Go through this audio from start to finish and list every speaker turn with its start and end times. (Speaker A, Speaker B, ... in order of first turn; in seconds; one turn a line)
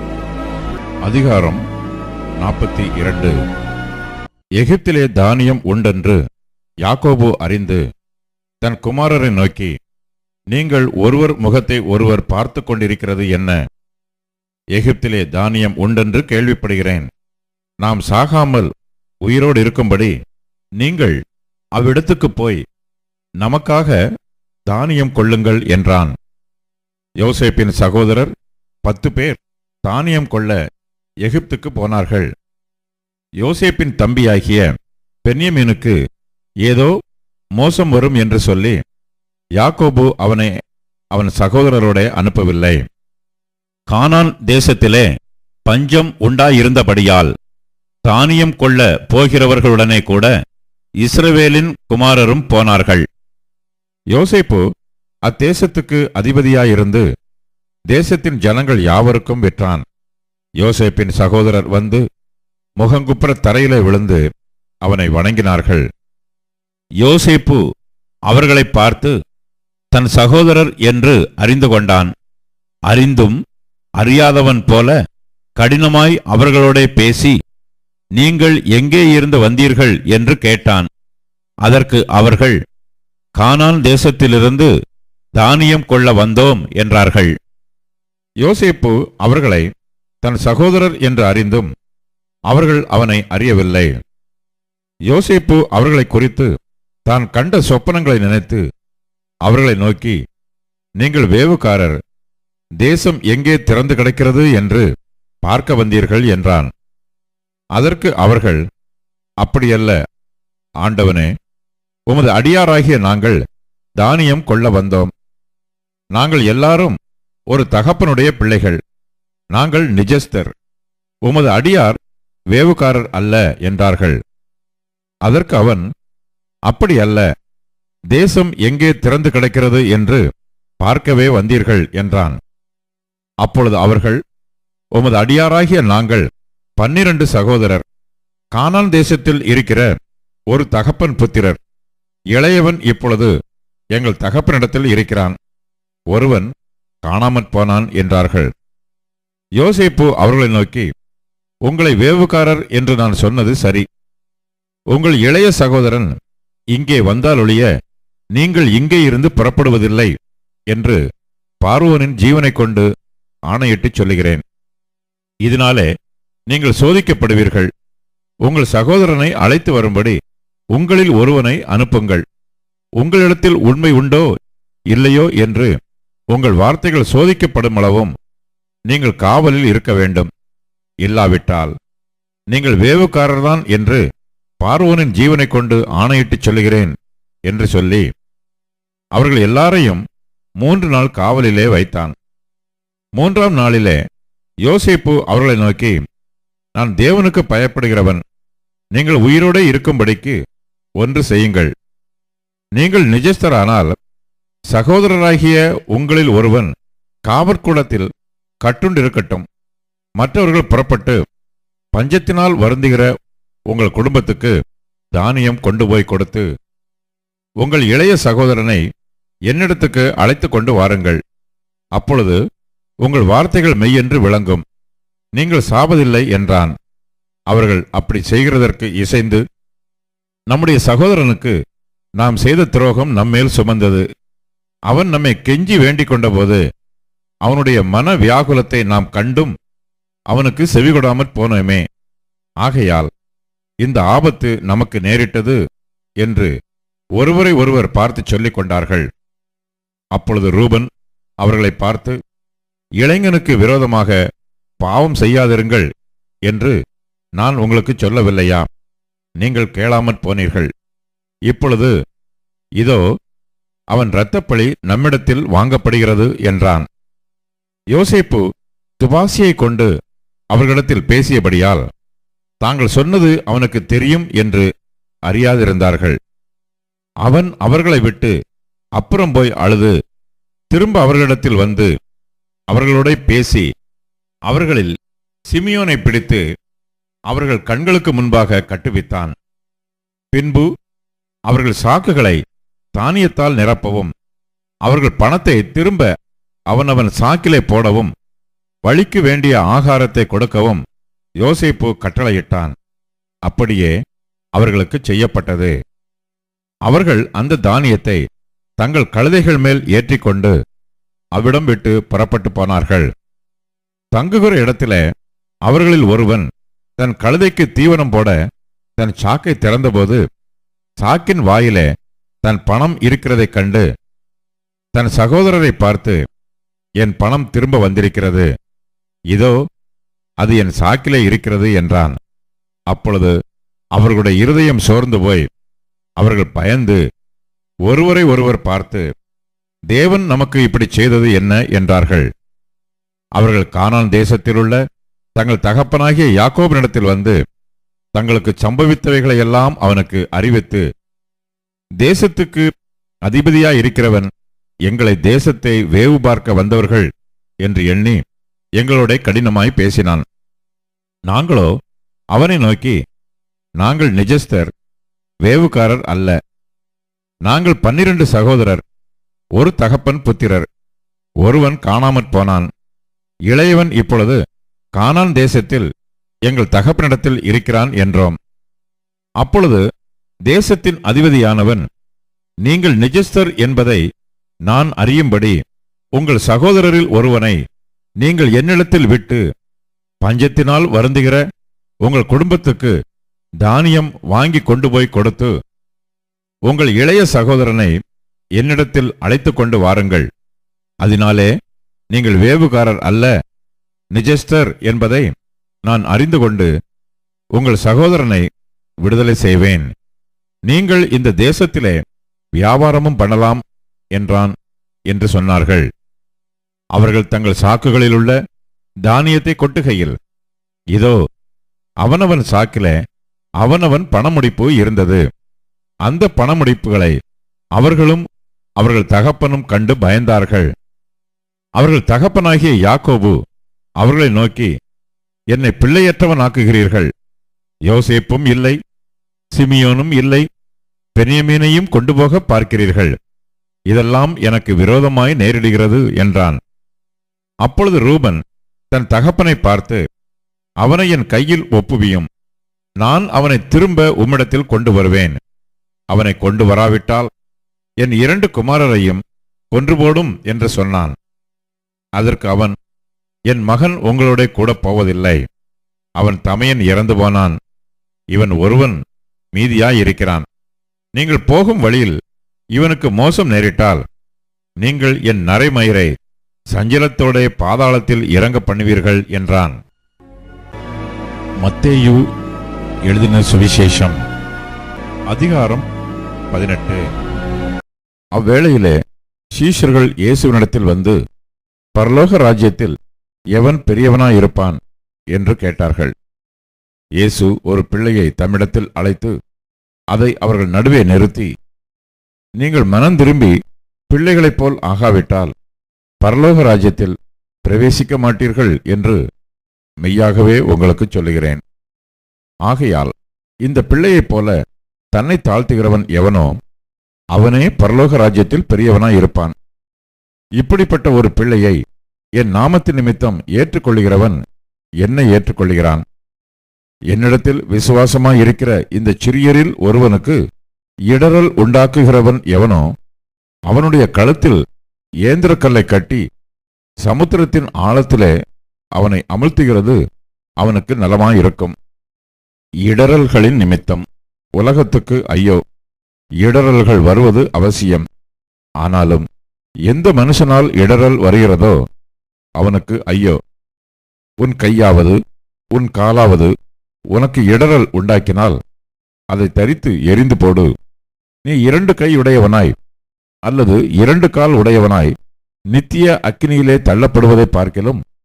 Speaker A: 1.0-1.6
Speaker A: 2.4-3.4
Speaker A: 4.6-6.2
Speaker A: 6.8-7.8
Speaker A: 8.6-9.7
Speaker A: 10.5-13.6
Speaker A: 14.7-17.1
Speaker A: 17.8-18.7
Speaker A: 19.2-20.1
Speaker A: 20.8-21.2
Speaker A: 21.7-22.6
Speaker A: 23.4-24.0
Speaker A: 24.7-26.1
Speaker A: 27.2-28.3
Speaker A: 28.8-30.6
Speaker A: 31.2-32.3
Speaker A: 33.4-34.7
Speaker A: 35.2-36.0
Speaker A: 36.6-36.9
Speaker A: 37.6-38.8
Speaker A: 39.6-40.5
Speaker A: 41.1-42.8
Speaker A: 43.9-45.1
Speaker A: 45.6-47.3
Speaker A: 48.0-50.3
Speaker A: 51.0-53.0
Speaker A: 54.1-54.6
Speaker A: 55.2-57.0
Speaker A: 57.9-59.8
Speaker A: 60.6-62.0
Speaker A: 62.8-64.2
Speaker A: 64.8-65.8
Speaker A: 67.0-67.6
Speaker A: 68.3-69.2
Speaker A: 69.9-72.1
Speaker A: 72.9-73.4
Speaker A: 74.0-74.9
Speaker A: 75.6-77.3
Speaker A: 78.2-80.9
Speaker A: 81.6-82.6
Speaker A: 83.4-84.7
Speaker A: 85.4-87.3
Speaker A: 88.4-89.7
Speaker A: 90.2-91.7
Speaker A: 92.5-93.9
Speaker A: 95.1-96.5
Speaker A: 97.1-98.6
Speaker A: 99.5-100.2
Speaker A: 101.0-102.0
Speaker A: 102.8-104.9
Speaker A: 105.5-106.7
Speaker A: 107.7-108.6
Speaker A: 109.4-110.0
Speaker A: 110.8-111.3
Speaker A: 112.1-113.4
Speaker A: 114.0-115.1
Speaker A: 116.1-117.0
Speaker A: 117.5-118.8
Speaker A: 119.5-120.5
Speaker A: 121.2-122.0
Speaker A: 122.5-124.2
Speaker A: 125.2-125.8
Speaker A: 126.7-127.2
Speaker A: 128.1-130.2
Speaker A: 130.8-132.4
Speaker A: 133.4-134.2
Speaker A: 134.9-136.2
Speaker A: 136.8-137.8
Speaker A: 138.5-139.9
Speaker A: 140.5-141.6
Speaker A: 142.3-143.3
Speaker A: 143.9-145.3
Speaker A: 146.1-146.5
Speaker A: 147.0-148.5
Speaker A: 149.6-150.9
Speaker A: 151.7-153.8
Speaker A: 154.9-156.2
Speaker A: 156.7-157.7
Speaker A: 158.3-160.1
Speaker A: 160.7-161.0
Speaker A: 161.6-162.9
Speaker A: 163.5-164.4
Speaker A: 165.4-165.9
Speaker A: 166.5-167.7
Speaker A: 168.4-170.2
Speaker A: 170.7-172.2
Speaker A: 173.0-174.3
Speaker A: 174.9-175.7
Speaker A: 176.3-178.1
Speaker A: 178.9-180.3
Speaker A: 181.0-181.7
Speaker A: 182.5-184.0
Speaker A: 184.6-186.9
Speaker A: 187.5-188.1
Speaker A: 189.2-190.0
Speaker A: 190.6-192.1
Speaker A: 193.2-194.0
Speaker A: 194.6-196.0
Speaker A: 196.8-198.2
Speaker A: 198.9-200.4
Speaker A: 201.0-201.7
Speaker A: 202.8-203.9
Speaker A: 204.7-206.7
Speaker A: 207.3-208.1
Speaker A: 208.6-209.4
Speaker A: 210.2-211.2
Speaker A: 211.9-213.1
Speaker A: 213.7-214.5
Speaker A: 215.1-216.5
Speaker A: 217.6-218.8
Speaker A: 219.5-221.2
Speaker A: 221.9-222.4
Speaker A: 223.0-224.6
Speaker A: 225.3-226.7
Speaker A: 227.5-229.4
Speaker A: 230.5-231.6
Speaker A: 232.2-234.1
Speaker A: 234.9-236.6
Speaker A: 237.4-239.5
Speaker A: 240.3-241.8
Speaker A: 242.6-243.1
Speaker A: 243.8-245.6
Speaker A: 246.2-246.5
Speaker A: 247.2-249.1
Speaker A: 250.1-250.9
Speaker A: 251.4-252.2
Speaker A: 253.0-254.2
Speaker A: 254.8-255.9
Speaker A: 256.4-256.8
Speaker A: 257.4-258.7
Speaker A: 259.4-260.7
Speaker A: 261.5-261.9
Speaker A: 262.8-263.0
Speaker A: 263.9-266.9
Speaker A: 267.9-268.4
Speaker A: 269.0-269.9
Speaker A: 270.5-271.8
Speaker A: 272.6-274.7
Speaker A: 275.3-276.2
Speaker A: 277.2-278.3
Speaker A: 279.0-279.9
Speaker A: 280.7-281.9
Speaker A: 282.7-283.7
Speaker A: 284.5-284.9
Speaker A: 285.5-286.4
Speaker A: 287.3-289.3
Speaker A: 290.3-290.7
Speaker A: 291.5-292.4
Speaker A: 292.9-294.1
Speaker A: 294.8-296.1
Speaker A: 296.7-298.1
Speaker A: 298.8-300.8
Speaker A: 301.4-302.7
Speaker A: 303.5-303.9
Speaker A: 304.5-305.7
Speaker A: 306.9-308.2
Speaker A: 308.8-310.5
Speaker A: 311.3-313.1
Speaker A: 314.1-315.0
Speaker A: 315.6-316.5
Speaker A: 317.0-318.4
Speaker A: 319.0-320.2
Speaker A: 321.0-321.9
Speaker A: 322.4-323.9
Speaker A: 324.9-326.2
Speaker A: 327.0-328.5
Speaker A: 329.3-329.6
Speaker A: 330.4-332.2
Speaker A: 332.9-333.3
Speaker A: 333.9-335.5
Speaker A: 336.2-337.0
Speaker A: 337.9-339.0
Speaker A: 339.9-342.3
Speaker A: 343.4-344.8
Speaker A: 345.4-347.4
Speaker A: 348.1-350.8
Speaker A: 352.0-352.7
Speaker A: 353.2-354.3
Speaker A: 354.9-357.1
Speaker A: 357.6-358.2
Speaker A: 358.8-360.2
Speaker A: 361.3-361.7
Speaker A: 362.3-363.0
Speaker A: 363.8-364.7
Speaker A: 365.4-366.4
Speaker A: 367.4-368.8
Speaker A: 369.6-370.7
Speaker A: 371.4-372.7
Speaker A: 373.5-374.4
Speaker A: 375.0-375.9
Speaker A: 376.4-378.4
Speaker A: 379.4-379.8
Speaker A: 380.5-381.8
Speaker A: 382.6-384.0
Speaker A: 384.7-385.6
Speaker A: 386.1-387.6
Speaker A: 388.2-389.4
Speaker A: 390.2-391.4
Speaker A: 392.0-392.9
Speaker A: 393.6-395.5
Speaker A: 396.7-397.9
Speaker A: 398.6-400.3
Speaker A: 401.0-401.5
Speaker A: 402.1-403.3
Speaker A: 404.1-405.3
Speaker A: 405.8-406.7
Speaker A: 407.6-408.4
Speaker A: 409.0-409.9
Speaker A: 410.7-412.0
Speaker A: 412.6-413.6
Speaker A: 414.1-414.5
Speaker A: 415.1-415.9
Speaker A: 416.9-418.4
Speaker A: 419.1-420.1
Speaker A: 422.0-422.9
Speaker A: 423.6-425.2
Speaker A: 426.0-427.1
Speaker A: 427.8-428.2
Speaker A: 428.8-430.7
Speaker A: 431.8-433.4
Speaker A: 434.0-434.7
Speaker A: 435.5-437.1
Speaker A: 437.9-438.8
Speaker A: 439.5-440.5
Speaker A: 441.2-443.1
Speaker A: 443.9-446.6
Speaker A: 447.6-448.4
Speaker A: 448.9-450.0
Speaker A: 450.8-452.3
Speaker A: 453.0-455.4
Speaker A: 456.1-457.3
Speaker A: 458.0-459.2
Speaker A: 459.7-461.1
Speaker A: 462.2-462.7
Speaker A: 463.5-465.4
Speaker A: 466.2-467.6
Speaker A: 468.3-469.0
Speaker A: 469.5-470.4
Speaker A: 471.1-472.2
Speaker A: 472.8-474.0
Speaker A: 474.8-476.1
Speaker A: 476.7-479.8
Speaker A: 481.6-482.2
Speaker A: 483.1-484.2
Speaker A: 485.3-485.9
Speaker A: 486.5-487.0
Speaker A: 488.4-489.0
Speaker A: 489.5-491.2
Speaker A: 491.9-492.9
Speaker A: 493.5-494.8
Speaker A: 495.3-496.1
Speaker A: 497.2-499.3
Speaker A: 500.1-501.5
Speaker A: 502.6-503.5
Speaker A: 504.1-505.5
Speaker A: 506.2-509.2
Speaker A: 510.0-511.6
Speaker A: 512.6-513.1
Speaker A: 513.6-514.5
Speaker A: 515.1-516.5
Speaker A: 517.3-519.5
Speaker A: 520.6-521.8
Speaker A: 522.4-524.4
Speaker A: 525.0-526.0
Speaker A: 527.1-530.4
Speaker A: 531.1-532.9
Speaker A: 533.7-534.6
Speaker A: 535.2-536.2
Speaker A: 537.0-538.3
Speaker A: 539.0-540.0
Speaker A: 540.6-541.7
Speaker A: 542.9-544.0
Speaker A: 544.6-545.6
Speaker A: 546.4-548.0
Speaker A: 548.8-549.2
Speaker A: 549.9-551.8
Speaker A: 552.6-553.4
Speaker A: 554.4-555.2
Speaker A: 555.7-556.5
Speaker A: 557.1-558.6
Speaker A: 559.3-560.7
Speaker A: 561.4-562.7
Speaker A: 563.5-565.1
Speaker A: 565.7-568.0